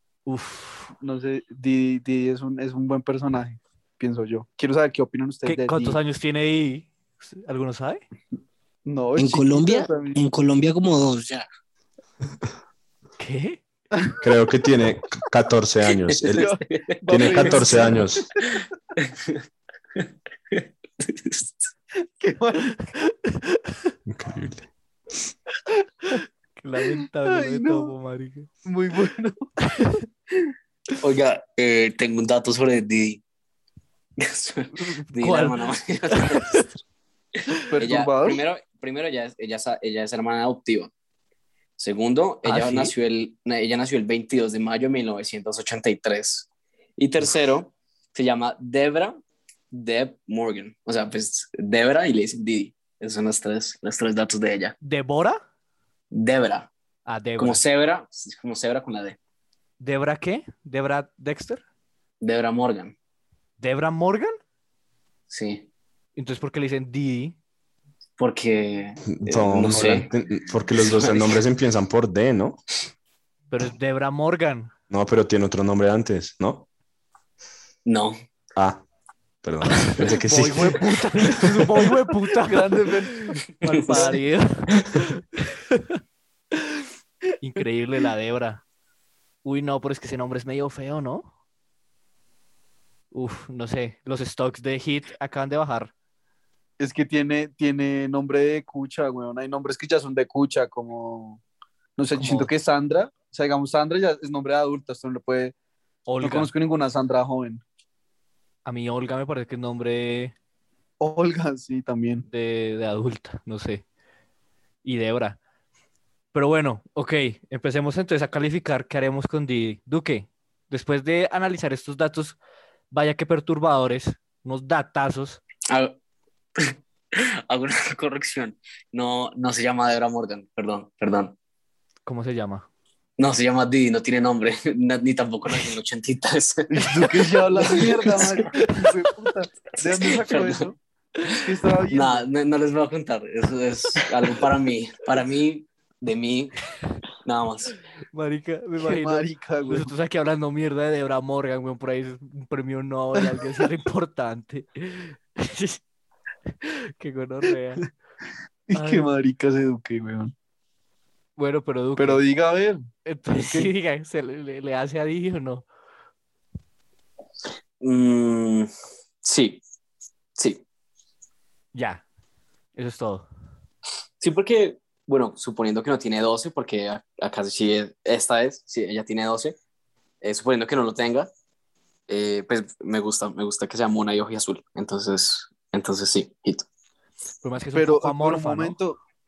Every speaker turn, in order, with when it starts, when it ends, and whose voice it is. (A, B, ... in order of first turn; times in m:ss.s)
0:00.2-0:00.9 A
0:01.0-0:06.0 B
0:05.4-0:08.0 A
0:08.8-0:10.2 B
0:09.2-0:11.5 C
0:13.2-0:13.6 A
0:14.2-0:16.5 D
0:16.1-0:17.8 E
0:16.4-0:18.2 B
0:17.1-0:18.2 D
0:19.1-0:19.4 E
0:20.0-0:21.5 E
0:22.2-0:22.7 B
0:24.1-0:24.7 D
0:26.1-0:28.5 A
0:27.3-0:27.9 B
0:28.6-0:29.4 B
0:31.0-0:33.2 E
0:34.2-0:36.7 E
0:34.7-0:35.6 A
0:36.1-0:36.6 A
0:37.7-0:38.4 B
0:37.8-0:40.9 E
0:41.8-0:49.2 E
0:42.4-0:42.9 A
0:49.7-0:54.8 E
0:54.8-0:55.4 A
0:56.1-0:56.7 E
0:57.0-0:57.6 A
0:57.4-0:59.2 E
0:59.8-1:01.6 A
1:02.2-1:02.9 E
1:03.6-1:04.3 A
1:05.3-1:05.7 E
1:06.2-1:07.3 A
1:08.2-1:10.1 E
1:09.0-1:12.6 D
1:10.7-1:11.4 E
1:13.5-1:14.7 A
1:14.9-1:16.6 D
1:17.8-1:18.2 E
1:18.6-1:18.8 D
1:19.4-1:20.8 D
1:19.9-1:25.2 A
1:22.3-1:23.3 B
1:23.6-1:24.1 E
1:23.9-1:24.2 B
1:27.4-1:28.6 A
1:29.4-1:31.3 A
1:33.1-1:35.9 A
1:36.8-1:41.4 B
1:42.0-1:45.5 B
1:42.1-1:42.5 A
1:46.1-1:46.5 A
1:46.2-1:47.6 B
1:48.6-1:50.3 A
1:51.0-1:52.2 B
1:52.3-1:53.8 A
1:54.8-1:55.4 A
1:56.3-2:02.4 A
2:02.9-2:05.4 A
2:05.7-2:06.0 E
2:06.6-2:11.3 E
2:12.0-2:12.7 A
2:13.2-2:18.5 E
2:16.7-2:20.8 B
2:19.8-2:20.7 E
2:21.4-2:22.2 B
2:21.9-2:26.5 E
2:27.2-2:27.7 E
2:28.1-2:35.8 A
2:28.8-2:29.9 B
2:36.6-2:37.8 A
2:38.7-2:40.3 B
2:38.7-2:39.1 A
2:41.4-2:42.2 A
2:42.0-2:43.7 B
2:43.0-2:45.6 A
2:47.8-2:48.7 E
2:49.2-2:49.6 E
2:50.4-2:50.6 E
2:51.7-2:52.0 A
2:52.7-2:53.3 A
2:54.2-2:59.6 E
3:00.2-3:01.3 E
3:02.1-3:06.6 E
3:07.4-3:08.8 A
3:07.7-3:09.0 B